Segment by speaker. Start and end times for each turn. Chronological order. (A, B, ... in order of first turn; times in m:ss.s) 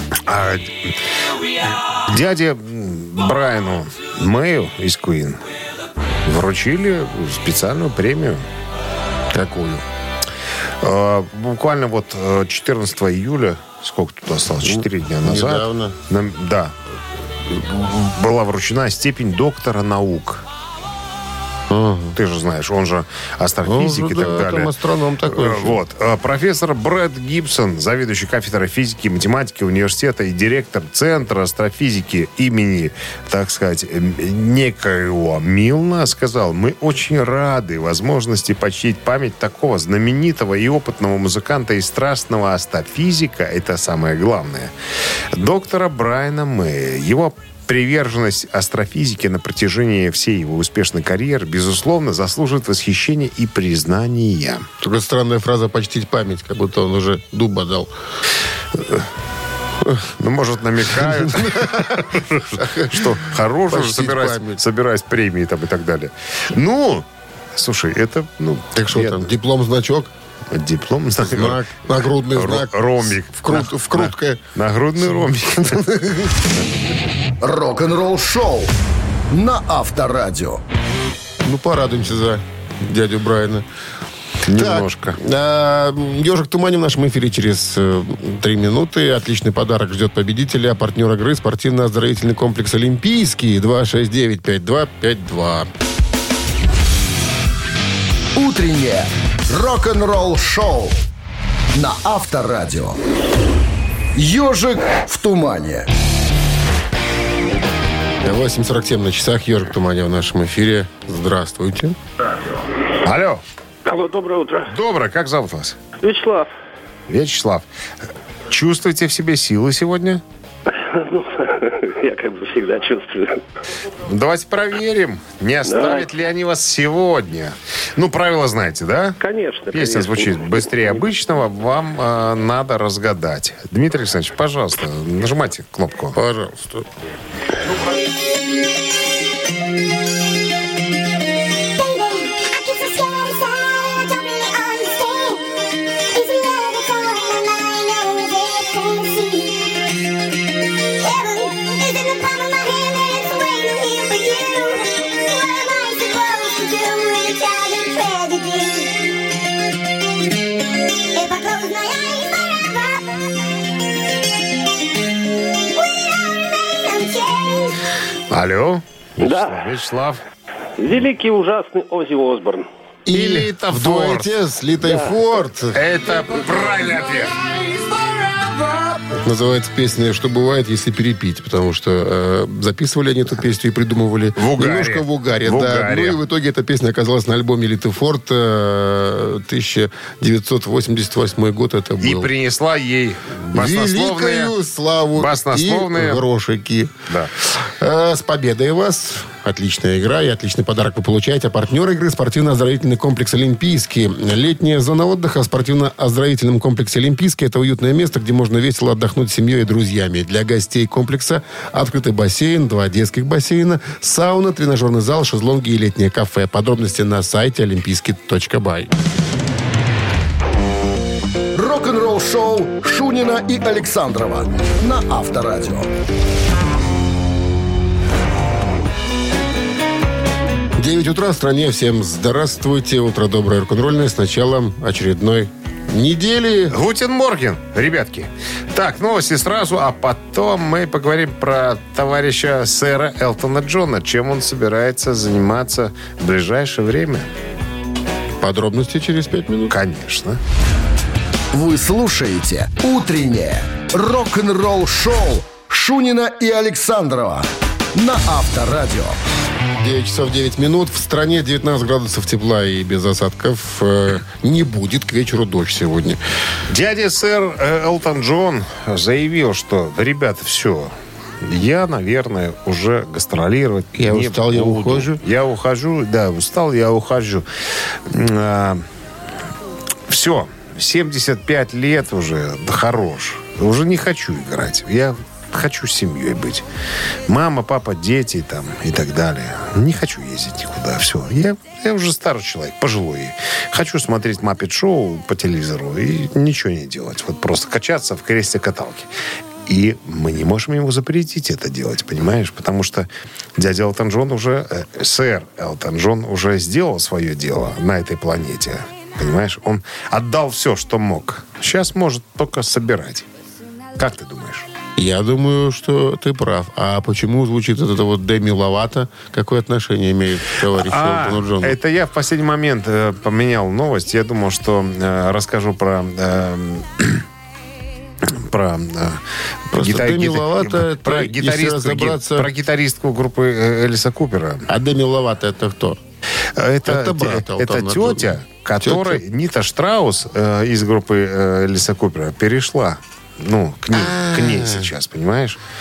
0:00.3-0:00.7 A
0:02.1-0:05.4 A
0:06.2-0:08.4 A
0:09.3-0:09.8 B
0:10.8-0:16.8 A
0:14.6-0:16.0 B
0:17.5-0:20.4 A
0:21.7-0:22.2 B
0:22.1-0:24.7 A
0:23.6-0:25.8 B
0:25.3-0:44.7 A
0:45.3-0:54.7 A
0:54.8-0:57.9 B
0:58.8-0:59.0 A
1:00.2-1:09.3 A
1:01.0-1:04.6 B
1:08.7-1:10.1 B
1:10.5-1:11.7 A
1:11.2-1:14.4 B
1:12.2-1:16.9 A
1:15.7-1:16.3 B
1:17.4-1:18.7 C
1:19.3-1:20.6 C
1:21.4-1:23.6 B
1:24.5-1:25.2 A
1:24.5-1:35.7 B
1:38.4-1:41.0 C
1:41.7-1:43.0 C
1:44.1-1:45.9 C
1:48.2-1:52.0 B
1:53.0-1:53.4 A
1:53.8-1:54.7 D
1:54.7-1:55.8 A
1:56.0-1:56.5 D
1:57.1-1:57.7 A
1:58.5-2:00.2 A
2:00.8-2:03.4 D
2:04.1-2:09.2 A
2:05.6-2:06.1 D
2:09.2-2:11.0 D
2:09.7-2:16.2 A
2:16.1-2:16.9 B
2:21.8-2:29.8 E
2:31.0-2:39.3 E
2:41.1-2:43.3 E
2:45.5-2:47.7 E
2:48.3-2:50.2 A
2:49.2-2:49.7 D
2:50.8-2:52.7 D
2:53.1-2:55.8 B
2:53.1-2:54.3 A
2:54.8-2:55.1 D
2:55.7-2:57.4 A
2:59.2-3:12.3 B
3:04.4-3:06.2 A
3:12.0-3:14.5 A
3:13.5-3:38.9 B
3:15.1-3:16.2 A
3:41.6-3:45.9 C
3:50.8-3:56.8 B
3:56.7-4:07.3 A
4:08.4-4:09.8 B
4:09.7-4:10.4 A
4:11.5-4:19.2 C
4:19.8-4:26.2 B
4:26.7-4:37.5 A
4:33.9-4:35.2 B
4:38.1-4:38.8 A
4:40.1-4:46.7 A
4:47.3-4:59.1 A
4:59.6-5:13.3 A
5:14.0-5:14.7 A
5:15.0-5:21.8 B
5:20.7-5:27.2 A
5:28.2-5:34.7 A
5:29.7-5:32.5 B
5:34.7-5:36.0 B
5:36.6-5:45.6 A
5:36.8-5:39.2 B
5:43.9-5:44.9 B